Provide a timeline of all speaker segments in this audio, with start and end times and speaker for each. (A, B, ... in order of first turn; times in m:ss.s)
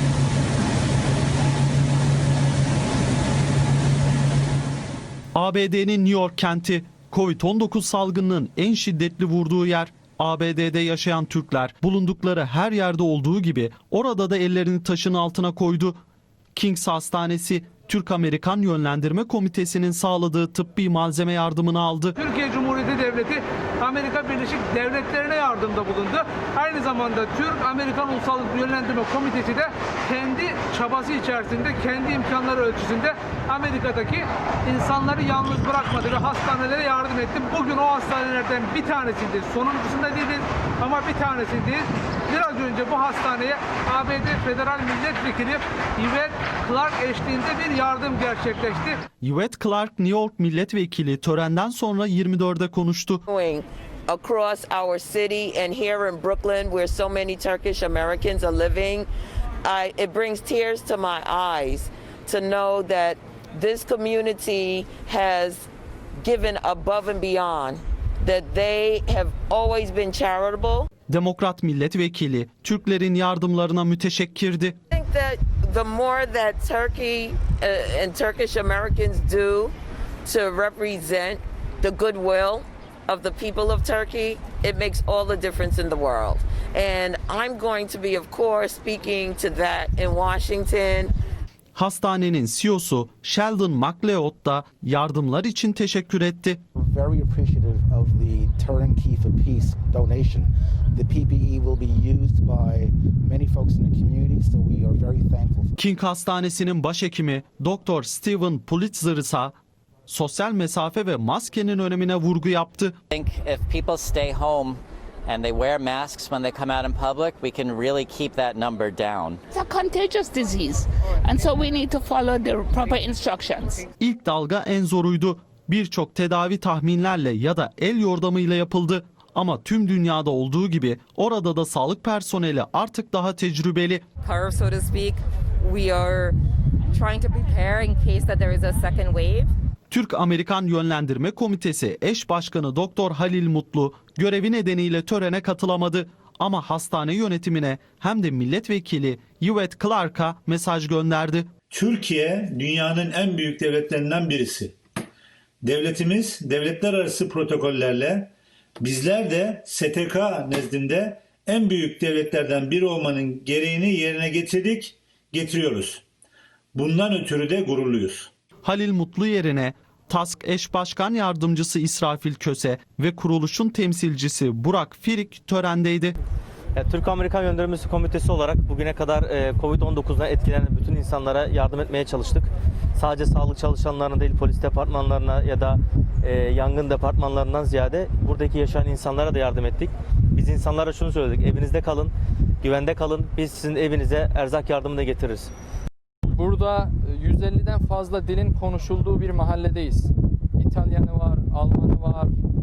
0:05.4-0:16.0 A
0:16.6-0:22.2 A
0:22.2-0:49.0 B
0:49.2-0:53.2 A
0:53.3-0:59.1 C
0:59.6-1:05.7 C
1:06.2-1:10.9 C
1:11.1-1:14.8 A
1:14.9-1:19.7 C
1:20.2-1:31.1 C
1:31.8-1:36.6 A
1:36.8-1:45.8 D
1:45.8-1:49.6 A
1:50.1-1:53.0 A
1:53.1-1:59.4 E
1:59.6-2:00.8 F
2:01.3-2:03.7 F
2:01.3-2:02.2 G
2:04.0-2:14.0 A
2:14.2-2:16.4 H
2:16.9-2:19.5 H
2:19.9-2:31.5 A
2:31.7-2:34.8 I
2:35.6-2:46.0 I
2:46.7-2:48.3 I
2:48.6-2:56.2 A
2:56.8-3:12.1 G
3:12.6-3:15.5 G
3:16.3-3:22.3 J